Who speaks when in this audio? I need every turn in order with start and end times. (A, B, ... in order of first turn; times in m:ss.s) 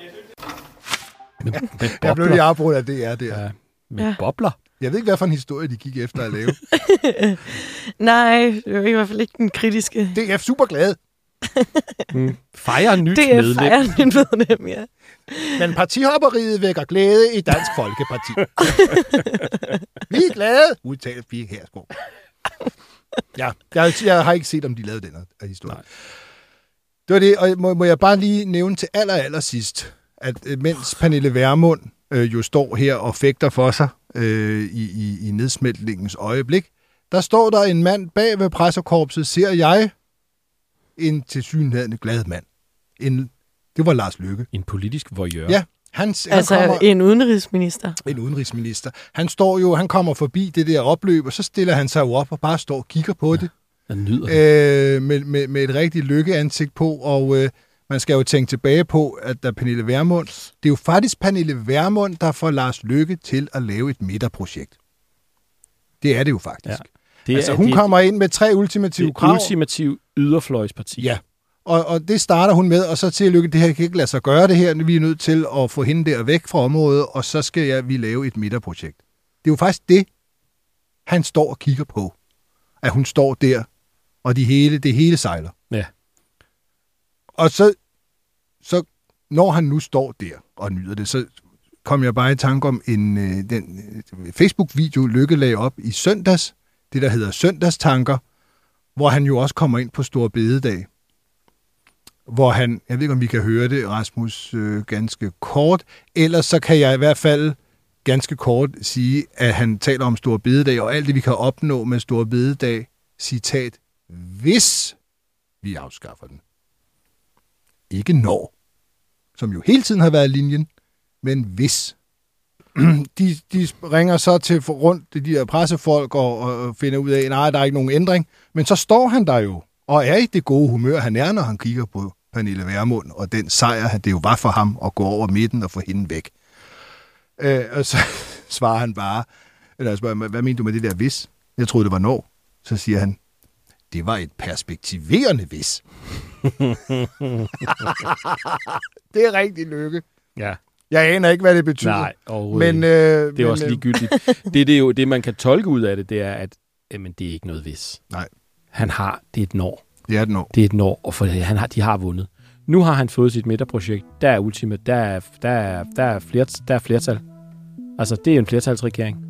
0:01.4-0:02.4 A
0:01.5-0:03.4 B
0:03.3-0:04.6 A
0:04.8-0:06.6 B
0:06.7-0:10.2 C
0:10.1-0:11.0 B
0:11.4-0:12.1 C
0:12.1-0:14.2 A
0:13.0-0:15.7 C
0:15.6-0:18.9 B
0:18.6-0:19.5 A
0:18.6-0:19.5 C
0:20.1-0:21.9 B
0:23.4-0:25.9 B
0:27.1-0:39.9 B
0:41.0-0:42.5 B
0:43.0-0:44.5 B
0:44.5-0:45.6 A
0:45.5-0:46.8 B
0:46.3-0:48.0 C
0:48.0-0:53.5 B
0:53.4-0:54.4 A
0:54.2-1:04.8 B
1:06.0-1:09.5 B
1:06.7-1:08.0 A
1:09.0-1:11.1 A
1:11.0-1:20.1 B
1:21.1-1:22.2 B
1:22.8-1:23.7 B
1:24.2-1:25.6 B
1:27.4-1:27.8 B
1:28.6-1:31.3 B
1:31.8-1:38.2 B
1:39.0-1:40.9 B
1:42.3-1:55.0 B
1:55.6-1:56.4 B
1:57.9-1:58.5 B
1:59.4-2:00.7 B
2:01.2-2:02.0 B
2:02.8-2:16.3 B
2:17.4-2:19.3 B
2:19.8-2:23.2 B
2:23.9-2:25.8 B
2:26.4-2:27.9 A
2:27.7-2:30.0 B
2:30.9-2:33.9 B
2:31.8-2:38.0 A
2:38.7-2:39.8 A
2:40.1-2:40.5 B
2:40.5-2:47.2 A
2:48.0-2:49.2 A